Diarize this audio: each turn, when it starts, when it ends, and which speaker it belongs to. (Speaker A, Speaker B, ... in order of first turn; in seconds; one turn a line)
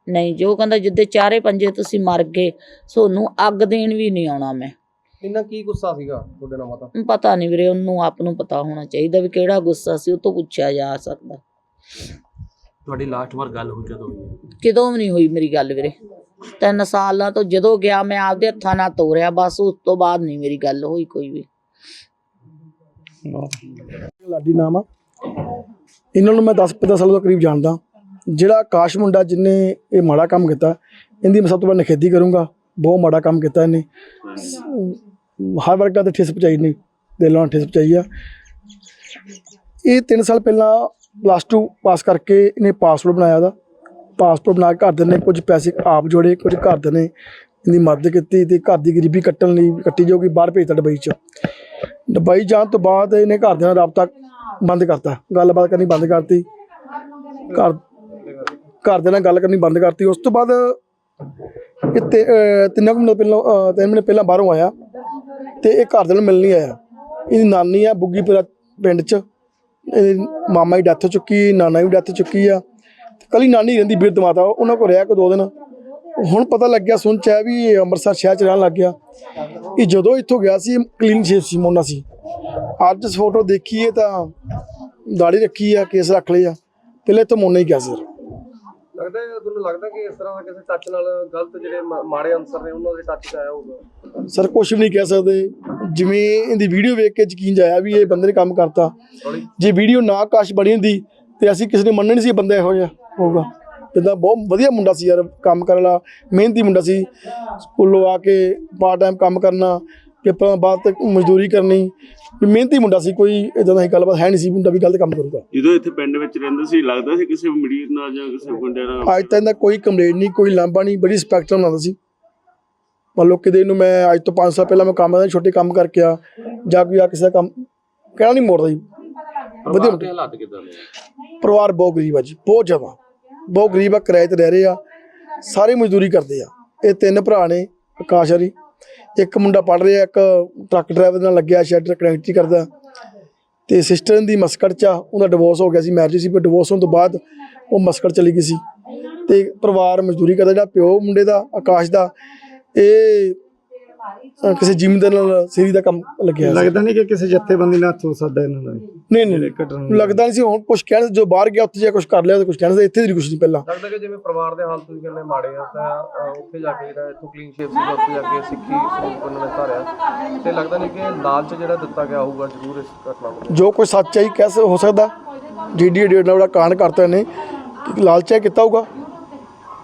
Speaker A: 0.1-4.7
Speaker B: 5.2-6.9
Speaker A: 7.0-11.4
Speaker C: 12.8-14.4
Speaker A: 14.6-15.9
Speaker A: 16.6-21.5
Speaker D: 23.3-23.6
Speaker E: 24.2-24.8
Speaker E: 26.1-27.8
Speaker E: 28.3-33.9
Speaker F: 34.2-34.6
Speaker E: 34.5-38.1
Speaker E: 39.9-43.5
Speaker E: 44.2-47.1
Speaker E: 47.6-51.2
Speaker E: 52.1-56.5
Speaker E: 57.5-57.8
Speaker B: 58.3-58.5
Speaker E: 58.8-60.8
Speaker E: 61.9-64.7
Speaker E: 65.6-66.8
Speaker E: 67.3-69.2
Speaker E: 69.9-72.6
Speaker E: 73.3-75.5
Speaker E: 76.2-79.0
Speaker E: 79.7-82.0
Speaker E: 82.8-84.3
Speaker E: 85.1-88.0
Speaker B: 89.0-93.8
Speaker E: 94.3-98.9
Speaker B: 99.2-99.5
Speaker E: 99.6-107.1
Speaker E: 107.6-115.4
Speaker F: 115.5-119.3
Speaker E: 119.1-122.0
Speaker E: 123.2-127.5
Speaker E: 128.2-128.8
Speaker C: 129.7-130.9
Speaker E: 129.7-130.1
Speaker E: 131.4-132.9
Speaker E: 133.5-134.8
Speaker E: 135.4-138.5
Speaker E: 139.2-142.7
Speaker E: 143.7-148.6
Speaker E: 149.3-152.1
Speaker E: 152.8-153.4
Speaker E: 154.4-156.8
Speaker D: 156.4-160.2
Speaker E: 159.1-163.7
Speaker B: 163.7-169.9
Speaker B: 170.4-173.6
Speaker E: 173.5-175.1
Speaker E: 175.7-177.3
Speaker E: 177.8-178.9